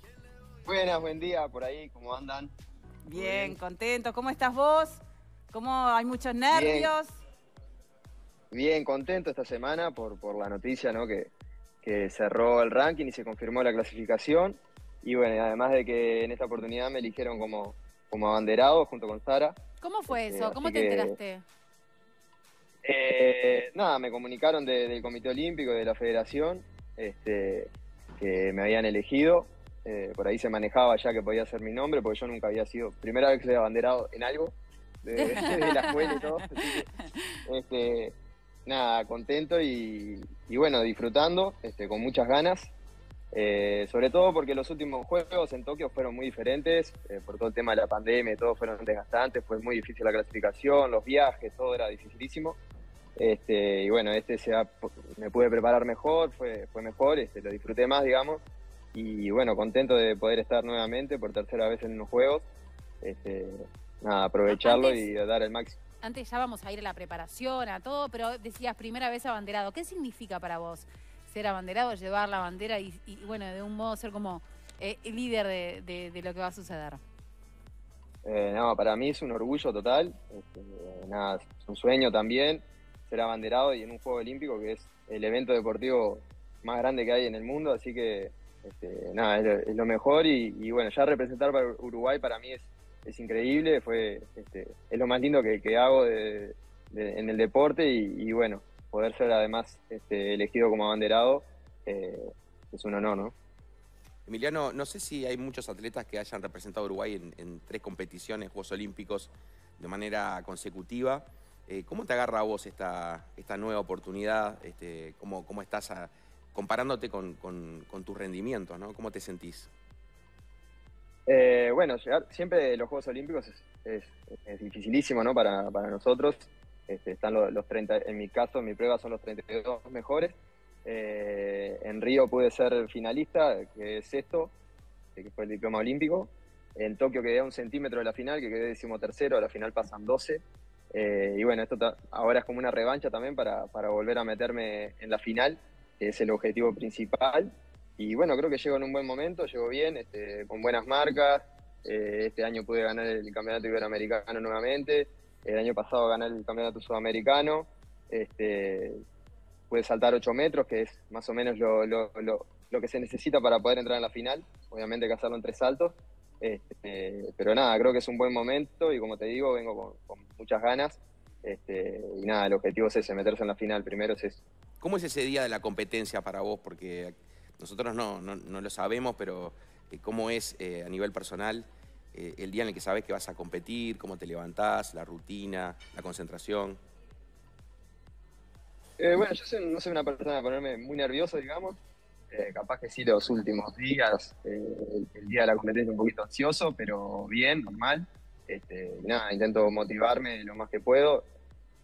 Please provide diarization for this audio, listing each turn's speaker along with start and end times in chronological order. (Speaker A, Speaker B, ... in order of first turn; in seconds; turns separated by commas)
Speaker A: 0.7-2.5, Speaker B: 3.0-7.2, Speaker A: 3.1-3.6, Speaker A: 6.5-6.9, Speaker A: 8.5-11.3, Speaker A: 11.8-21.2, Speaker C: 19.8-21.4, Speaker A: 22.9-36.9, Speaker C: 35.4-36.2, Speaker B: 35.5-36.3, Speaker A: 37.5-38.1, Speaker A: 38.7-42.7, Speaker A: 43.3-52.6, Speaker A: 53.2-58.4, Speaker A: 58.9-62.5, Speaker A: 63.0-65.8, Speaker C: 64.5-65.0, Speaker C: 66.0-77.0, Speaker A: 78.2-103.3, Speaker D: 104.3-119.7, Speaker A: 121.3-134.5, Speaker A: 135.2-140.4, Speaker A: 140.9-159.0, Speaker A: 159.7-174.4, Speaker D: 174.8-186.8, Speaker A: 189.0-191.8, Speaker A: 192.3-201.3